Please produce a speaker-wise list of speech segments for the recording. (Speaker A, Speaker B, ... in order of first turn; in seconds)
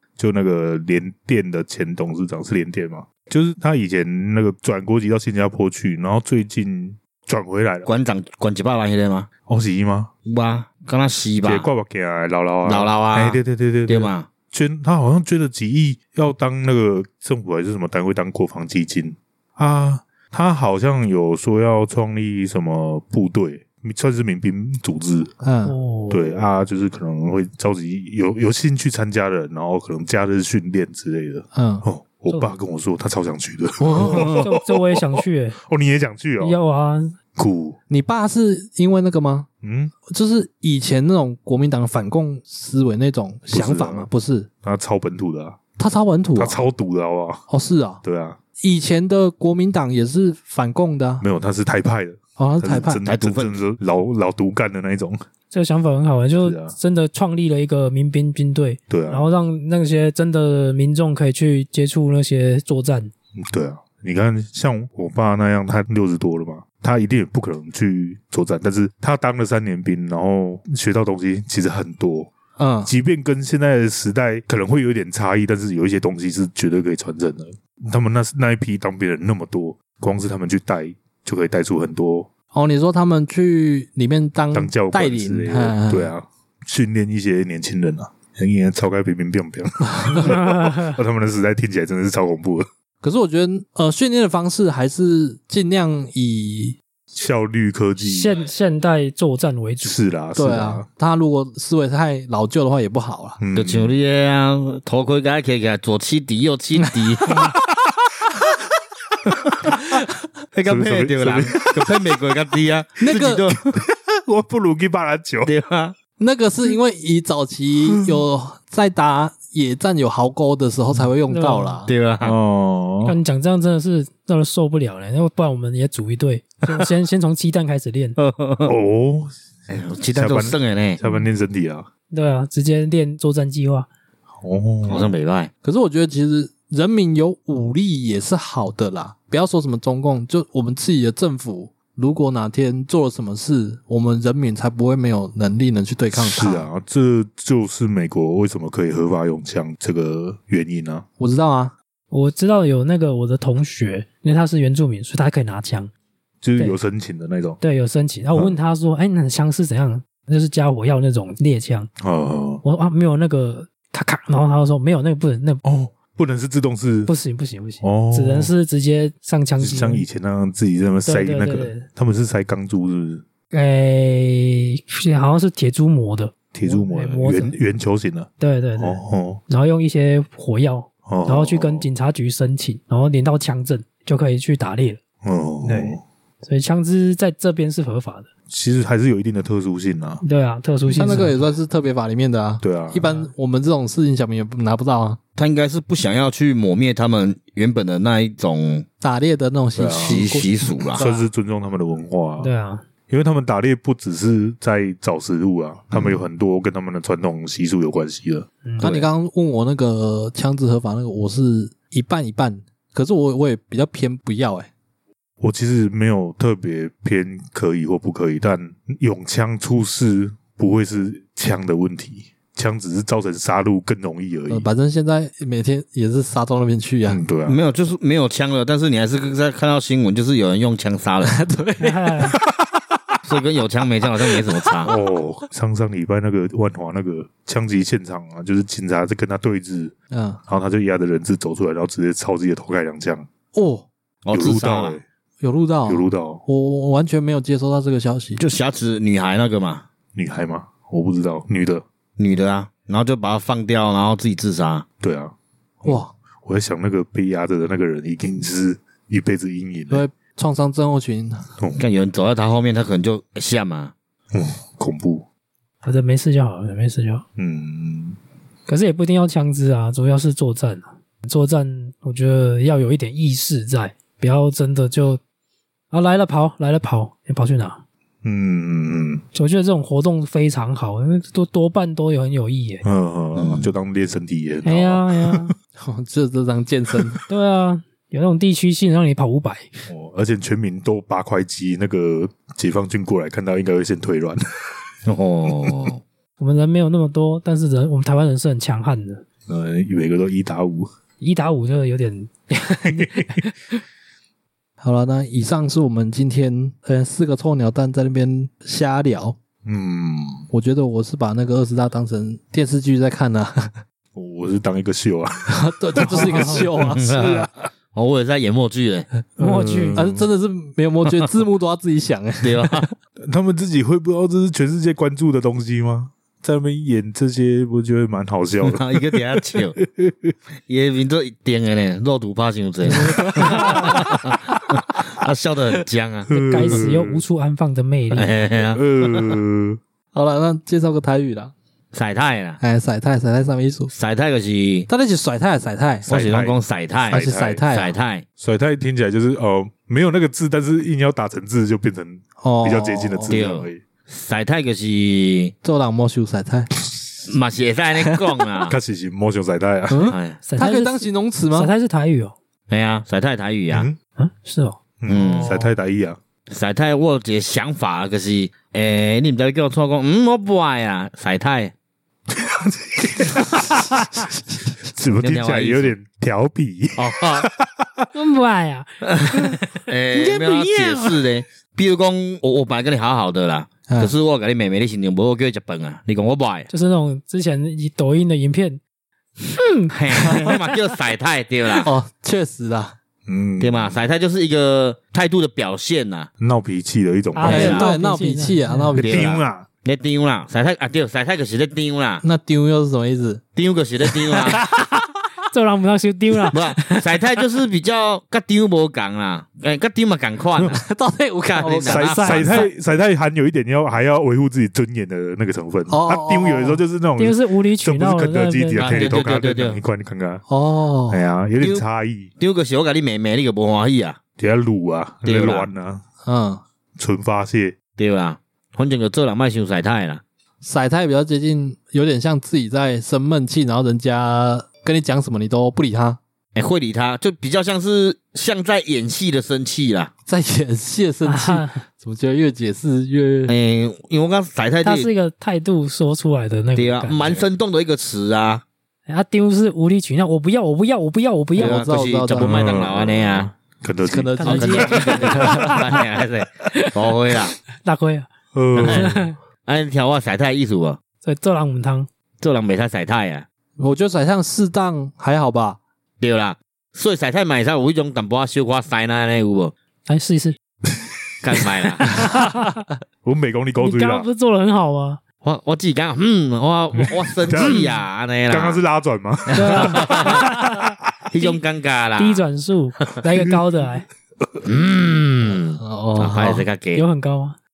Speaker A: 0.2-7.9, 9.5-10.1, 11.4-25.4, 26.1-36.6, 37.4-37.8, 39.6-39.9, 43.5-44.1, 44.6-45.6, 46.4-47.5, 48.0-48.4, 51.2-55.2, 56.4-56.8, 58.9-59.3, 63.4-72.3, 72.8-82.3, 84.5-92.7, 97.1-98.4, 99.8-100.9, 103.4-103.9, 109.3-109.7, 110.7-112.0, 113.7-115.5, 117.9-118.2, 122.2-123.2, 128.7-129.3, 130.1-131.9, 134.4-135.1, 146.1-151.1, 156.4-157.6, 162.0-162.6, 165.6-167.1, 167.8-168.5, 169.6-173.2, 176.5-179.4, 181.1-181.9, 185.2-186.0, 188.5-190.2, 190.8-191.3, 192.6-193.1, 199.8-200.3, 201.0-202.5, 203.1-209.1, 215.4-224.7, 227.1-227.6, 234.8-239.9, 240.5-243.3, 244.3-245.1, 245.9-246.4, 250.2-251.8, 255.0-260.0, 261.6-261.9, 264.3-265.3, 267.4-268.2, 278.2-279.2, 282.8-285.4, 289.9-294.8, 299.5-300.9, 302.9-303.3, 309.6-310.5, 314.1-317.5, 319.4-320.3, 323.2-330.3, 333.2-333.5, 336.3-337.2, 338.7-339.8, 346.1-346.6, 347.1-347.6, 348.4-353.8, 358.6-360.1, 363.7-364.0, 365.0-366.2, 372.3-374.3, 374.8-378.1, 393.3-394.0, 396.4-397.8, 399.0-399.7, 411.9-420.4, 421.1-422.3, 424.4-426.0, 427.0-427.8, 452.4-454.8, 458.5-459.3, 473.2-474.3, 477.4-480.6
Speaker B: 7.8-9.3, 10.2-11.7, 12.7-14.3, 53.0-53.6, 103.5-107.4, 110.5-113.6, 115.5-116.0, 121.9-122.3, 128.2-128.8, 129.7-131.0, 134.9-135.5, 195.4-198.9, 199.9-201.0, 227.5-231.4, 233.2-234.9, 244.2-245.0, 248.4-249.8, 252.2-254.8, 261.8-263.9, 283.4-283.7, 295.1-296.0, 316.8-319.1, 322.4-322.9, 328.6-329.8, 330.7-336.8, 338.1-339.4, 341.9-342.6, 343.9-344.9, 346.1-348.2, 353.3-355.5, 357.3-358.8, 360.1-360.4, 362.7-363.9, 365.1-365.6, 366.5-371.7, 375.2-375.9, 377.0-377.5, 379.0-386.7, 389.9-391.9, 393.6-396.3, 397.4-397.9, 399.0-402.2, 403.6-404.6, 406.5-410.8, 411.5-412.7, 418.8-419.8, 422.4-424.2, 425.2-425.7, 428.0-430.2, 436.6-440.1, 443.5-445.1, 446.8-448.6, 451.6-453.5, 454.5-457.6, 458.7-461.0, 462.4-463.4, 466.2-469.7, 471.4-472.2, 475.4-478.8, 479.5-480.5, 481.3-482.4, 484.6-487.0
Speaker C: 25.4-25.8, 31.5-31.9, 33.8-34.4, 37.9-39.5, 40.1-44.5, 45.8-46.6, 47.5-48.0, 48.6-51.2, 52.4-53.0, 72.6-72.9, 82.5-86.1, 93.0-96.8, 100.4-103.4, 113.0-113.5, 116.2-121.9, 135.6-146.7, 151.2-151.7, 190.9-195.2, 199.0-201.1, 208.8-214.7, 224.5-227.2, 231.2-232.3, 240.1-240.4, 243.5-243.9, 245.4-248.4, 255.8-256.1, 259.9-261.5, 285.8-287.2, 304.8-309.4, 310.5-313.8, 315.5-317.5, 319.9-322.9, 340.1-341.5, 342.6-343.9, 344.9-346.1, 347.1-347.9, 352.4-353.4, 355.6-356.7, 359.9-361.7, 383.9-384.1, 390.3-390.5, 391.7-392.9, 397.4-399.3, 402.2-403.4, 404.0-404.9, 410.7-412.6, 415.9-416.8, 420.5-421.2, 426.2-426.6, 430.6-436.2, 440.3-443.5, 451.6-452.8, 454.1-455.9, 463.8-465.8, 485.8-486.7
Speaker D: 25.6-26.4, 32.3-32.6, 34.3-35.6, 36.4-37.1, 55.5-63.1, 90.2-91.0, 98.0-100.0, 121.3-121.8, 123.0-128.2, 132.1-133.9, 152.1-155.9, 157.6-161.9, 162.6-165.6, 167.1-170.1, 171.1-171.9, 173.5-177.5, 178.4-185.0, 185.6-188.3, 190.2-191.4, 201.0-201.3, 202.4-202.8, 208.6-209.0, 231.8-232.4, 265.8-267.2, 268.7-275.2, 275.9-277.8, 279.3-282.8, 284.6-285.5, 287.3-289.8, 296.4-299.2, 301.2-303.8, 316.1-316.6, 319.4-320.0, 332.9-334.1, 336.3-338.3, 360.4-362.4, 364.2-364.8, 378.1-381.2, 386.7-388.8, 389.4-390.2, 397.3-399.0, 405.5-407.2, 417.2-419.1, 441.2-441.8, 444.8-447.4, 449.1-451.8, 454.4-456.0, 457.8-458.3, 458.8-459.4, 461.2-462.1, 470.1-470.6, 472.1-472.8, 473.8-475.2, 479.5-481.6, 482.2-484.1, 486.9-487.6